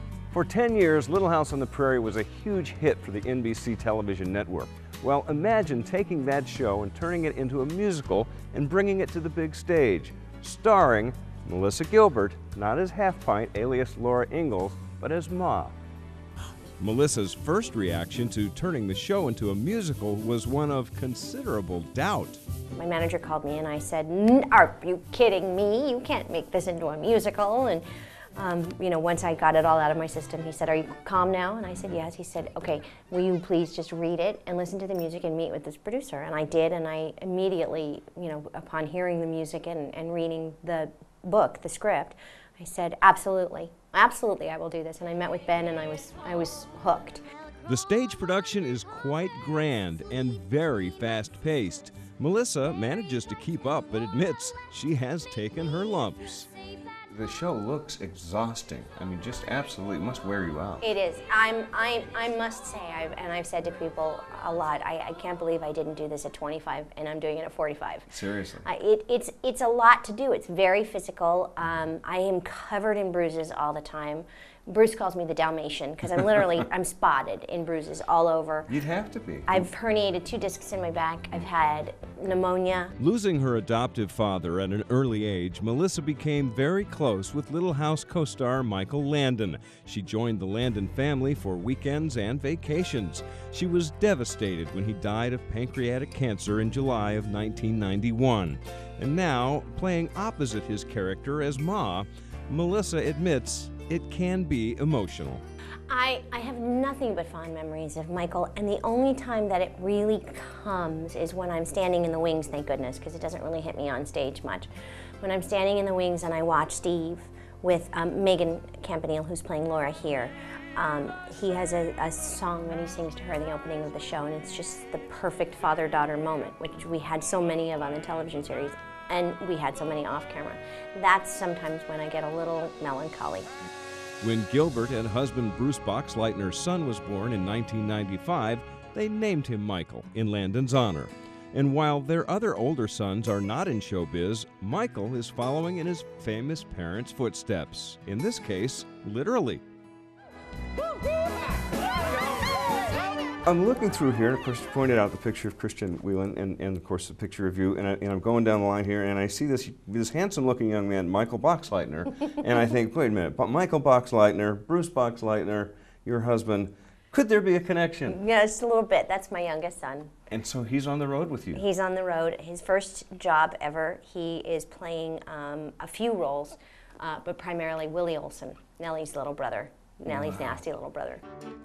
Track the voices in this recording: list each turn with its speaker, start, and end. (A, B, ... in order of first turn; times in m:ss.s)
0:00.3-0:15.8 A
0:16.8-0:22.4 A
0:22.8-0:27.8 B
0:28.4-0:47.2 B
0:47.7-0:56.5 A
0:57.1-1:00.8 A
1:00.8-1:08.1 B
1:08.1-1:08.7 A
1:08.6-1:18.7 B
1:18.7-1:19.7 A
1:19.5-1:23.0 B
1:23.0-1:45.4 A
1:45.9-1:54.7 B
1:55.2-2:13.5 B
2:14.2-2:29.6 A
2:33.4-2:48.2 A
2:48.1-2:50.1 B
2:50.3-2:51.6 A
2:51.5-3:01.2 B